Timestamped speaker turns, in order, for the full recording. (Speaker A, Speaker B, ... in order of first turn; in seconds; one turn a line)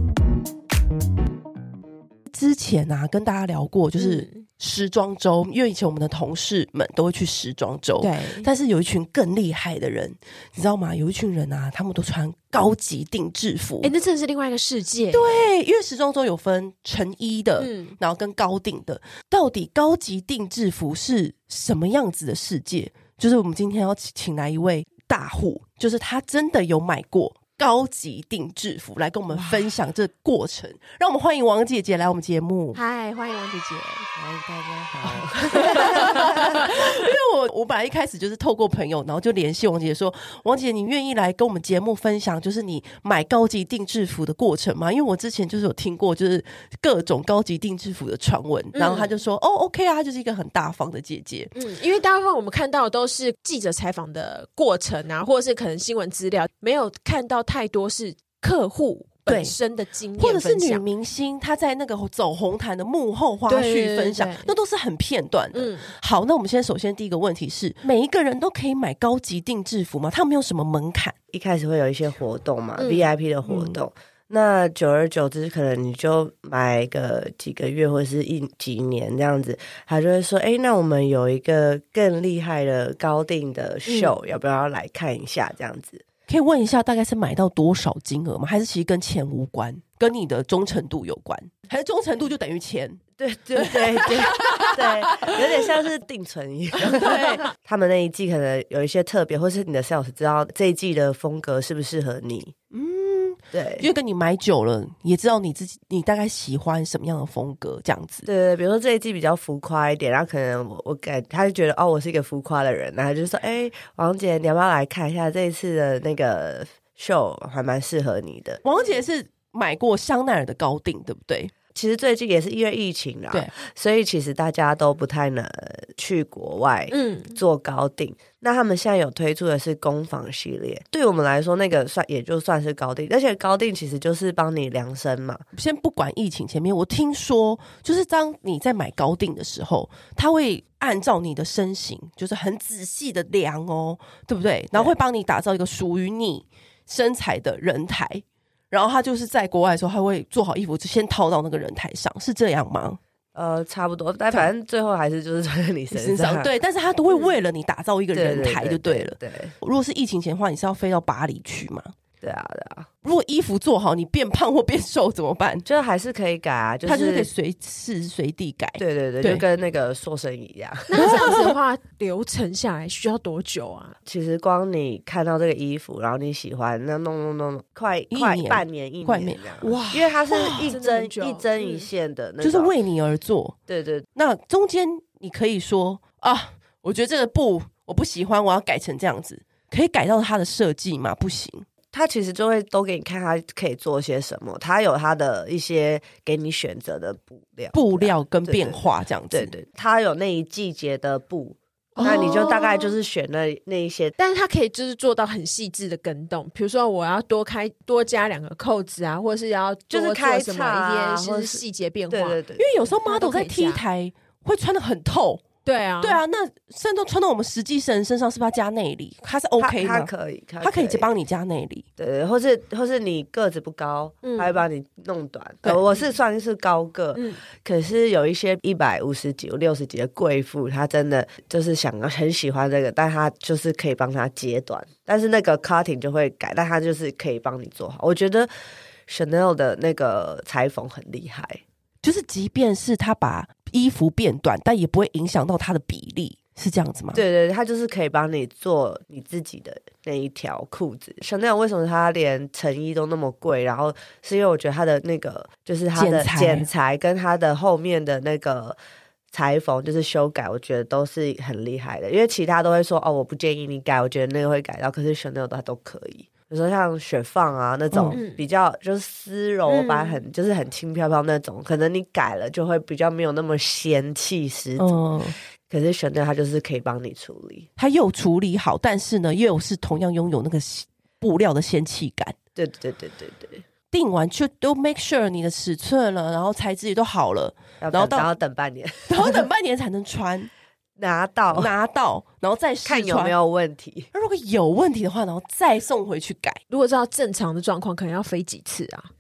Speaker A: 2.3-13.9
Speaker B: 4.0-4.4
Speaker B: 8.0-8.5
Speaker B: 13.8-15.5
Speaker A: 15.1-32.8
Speaker B: 17.6-18.0
Speaker B: 32.7-34.1
Speaker C: 34.2-36.7
Speaker B: 35.4-36.9
Speaker A: 35.5-51.5
Speaker B: 48.8-49.1
Speaker B: 51.5-60.9
Speaker A: 59.3-59.5
Speaker A: 60.2-71.2
Speaker B: 63.5-64.5
Speaker B: 65.5-65.9
Speaker C: 71.3-86.0
Speaker B: 72.8-73.1
Speaker A: 73.5-73.8
Speaker B: 83.9-84.1
Speaker A: 86.3-93.0
Speaker C: 93.2-102.5
Speaker A: 93.6-95.4
Speaker A: 97.0-97.4
Speaker A: 102.7-108.3
Speaker C: 103.5-103.9
Speaker C: 108.3-118.6
Speaker A: 118.6-121.5
Speaker C: 121.7-135.4
Speaker B: 126.9-127.4
Speaker A: 135.5-153.0
Speaker C: 153.3-156.5
Speaker A: 155.9-161.9
Speaker C: 158.1-159.5
Speaker C: 162.2-162.9
Speaker A: 163.0-165.7
Speaker C: 165.7-167.3
Speaker A: 166.9-169.4
Speaker C: 168.8-171.3
Speaker B: 170.9-174.0
Speaker A: 171.0-171.6
Speaker C: 174.1-182.7
Speaker A: 178.1-180.7
Speaker B: 179.6-181.9
Speaker A: 182.4-183.6
Speaker C: 183.7-184.1
Speaker A: 184.2-191.7
Speaker C: 191.9-204.2
Speaker A: 197.7-199.5
Speaker B: 202.0-202.9
Speaker A: 202.0-202.2
Speaker B: 204.2-212.4
Speaker C: 209.9-212.7
Speaker A: 212.6-215.4
Speaker B: 213.1-213.8
Speaker B: 215.7-216.2
Speaker A: 216.0-220.1
Speaker C: 219.6-221.1
Speaker A: 220.6-221.8
Speaker C: 222.0-238.5
Speaker B: 224.2-224.6
Speaker B: 227.2-227.4
Speaker C: 239.1-241.6
Speaker A: 242.0-247.2
Speaker C: 247.1-258.8
Speaker A: 255.9-256.7
Speaker C: 259.3-275.0
Speaker A: 267.9-268.2
Speaker B: 268.1-268.4
Speaker B: 269.7-270.2
Speaker A: 274.8-275.4
Speaker C: 275.7-277.7
Speaker A: 277.8-282.4
Speaker C: 282.6-283.6
Speaker A: 283.9-288.3
Speaker C: 287.8-289.4
Speaker A: 289.1-290.5
Speaker C: 291.0-291.7
Speaker A: 291.5-293.4
Speaker C: 292.8-294.1
Speaker A: 294.1-296.6
Speaker B: 296.7-299.1